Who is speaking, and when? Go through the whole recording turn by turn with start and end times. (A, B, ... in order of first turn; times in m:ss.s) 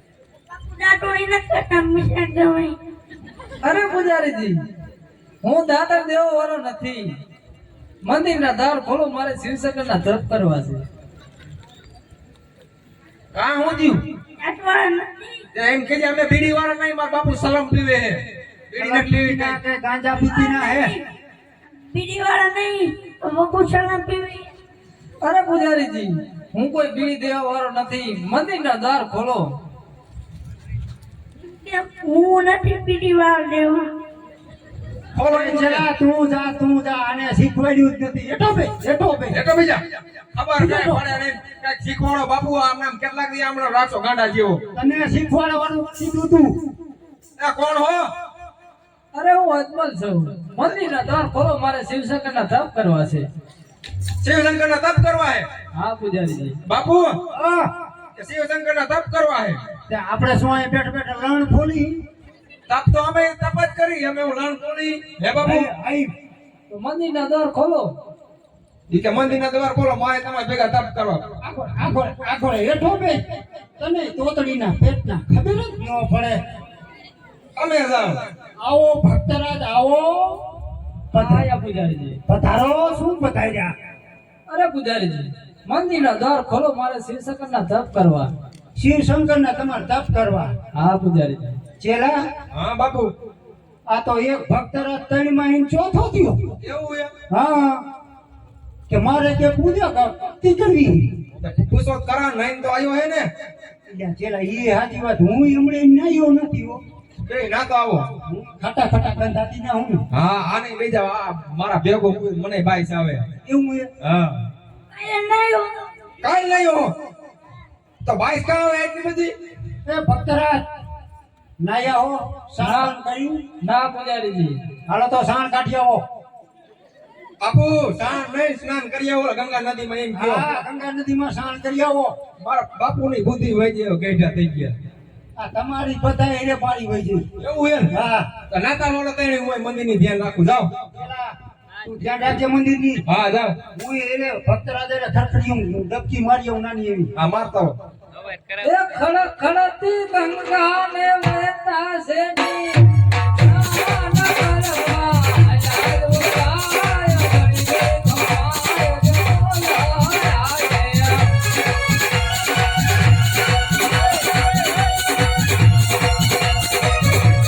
0:00.5-0:02.8 A
0:03.6-0:04.6 B
0:05.4-0:07.2 B
0:08.0-0:10.8 B
0:13.3-0:14.0 C
0:14.4-0:15.4 A
0:15.5-0:19.6 C
0:18.8-0:21.0 D
0:20.3-0:21.0 A
0:21.9-0:24.5 A
0:25.2-0:29.6 B
0:31.4-0:33.9 A
0:35.1-0:35.9 C
0:35.3-0:39.4 D
0:39.3-0:39.8 C
0:40.3-0:44.6 C
0:40.6-0:41.0 D
0:44.7-0:46.6 D
0:47.4-0:48.1 C
0:49.1-0:53.3 B
0:54.2-0:55.5 C
0:55.7-0:56.6 B
0:56.6-0:57.2 C
0:57.3-0:57.7 D
0:58.2-0:59.6 C
0:59.9-1:02.0 D
1:02.7-1:05.7 C
1:05.4-1:06.1 D
1:06.7-1:07.9 B
1:08.9-1:11.2 C
1:11.4-1:13.2 D
1:13.8-1:16.4 D
1:17.6-1:18.2 C
1:18.6-1:20.4 D
1:21.1-1:21.5 D
1:21.1-1:22.2 B
1:22.3-1:23.7 D
1:24.5-1:28.3 B
1:28.8-1:30.5 D
1:30.7-1:31.6 B
1:31.8-1:32.2 D
1:32.5-1:33.1 C
1:33.9-1:36.5 D
1:36.6-1:37.1 C
1:37.3-1:37.8 D
1:38.9-1:41.1 D
1:41.3-1:43.3 C
1:43.9-1:46.8 D
1:47.2-1:48.1 C
1:48.2-1:50.0 D
1:50.1-1:53.2 C
1:53.4-1:53.9 D
1:54.0-1:54.4 C
1:54.9-1:55.9 A
1:56.2-1:56.9 C
1:58.0-1:59.3 C
1:59.8-2:00.6 D
2:01.6-2:03.4 D
2:02.6-2:02.9 B
2:03.6-2:04.6 B
2:04.9-2:06.0 D
2:07.4-2:10.4 C
2:10.1-2:12.1 D
2:12.4-2:14.7 C
2:15.4-2:17.2 D
2:17.4-2:17.9 C
2:17.9-2:18.3 D
2:18.5-2:20.7 C
2:20.9-2:21.3 D
2:21.8-2:23.0 D
2:23.0-2:23.6 C
2:23.7-2:27.1 D
2:27.2-2:27.8 C
2:28.6-2:41.4 B